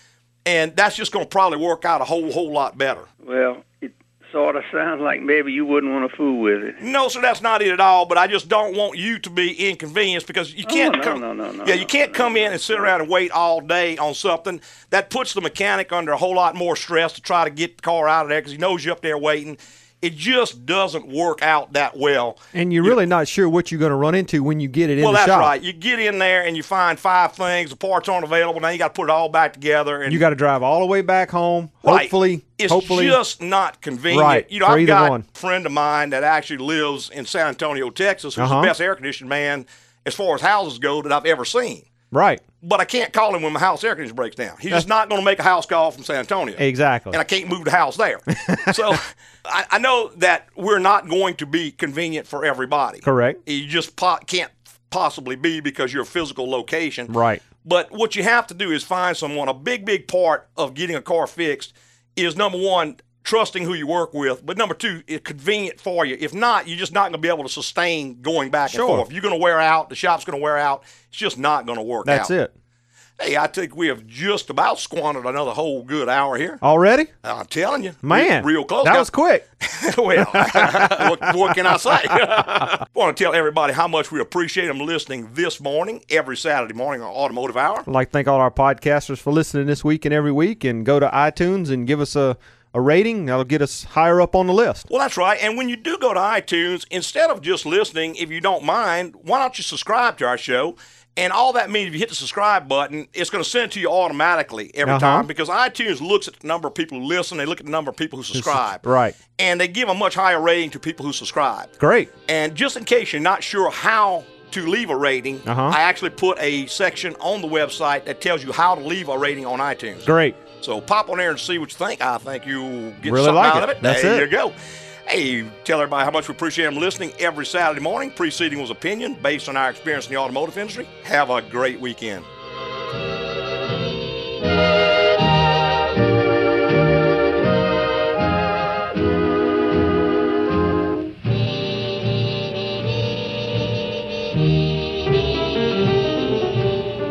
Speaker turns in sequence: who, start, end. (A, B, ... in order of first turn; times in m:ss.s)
0:00.4-0:03.1 A
0:03.2-0:06.8 B
0:06.8-0:23.0 A
0:10.6-0:13.0 B
0:22.5-0:25.5 C
0:25.0-0:30.2 A
0:30.1-0:33.2 C
0:31.8-0:41.8 A
0:34.1-0:35.2 C
0:38.4-0:38.7 C
0:42.1-0:42.4 C
0:42.6-0:57.1 A
0:46.6-0:47.2 C
0:48.4-0:48.8 C
0:53.0-0:53.4 C
0:57.1-0:57.4 C
0:57.6-1:12.3 A
1:08.7-1:09.0 C
1:12.0-1:12.5 C
1:13.2-1:16.6 A
1:16.6-1:17.1 C
1:17.2-1:19.1 A
1:18.0-1:19.4 C
1:19.6-1:27.8 A
1:20.2-1:21.2 C
1:27.9-1:34.8 C
1:34.9-1:48.8 A
1:44.8-1:45.3 C
1:48.3-1:49.2 C
1:49.4-1:51.7 A
1:51.8-1:52.1 C
1:52.3-2:04.5 A
1:55.4-1:55.8 C
2:00.0-2:00.4 C
2:03.0-2:04.3 C
2:05.1-2:12.2 A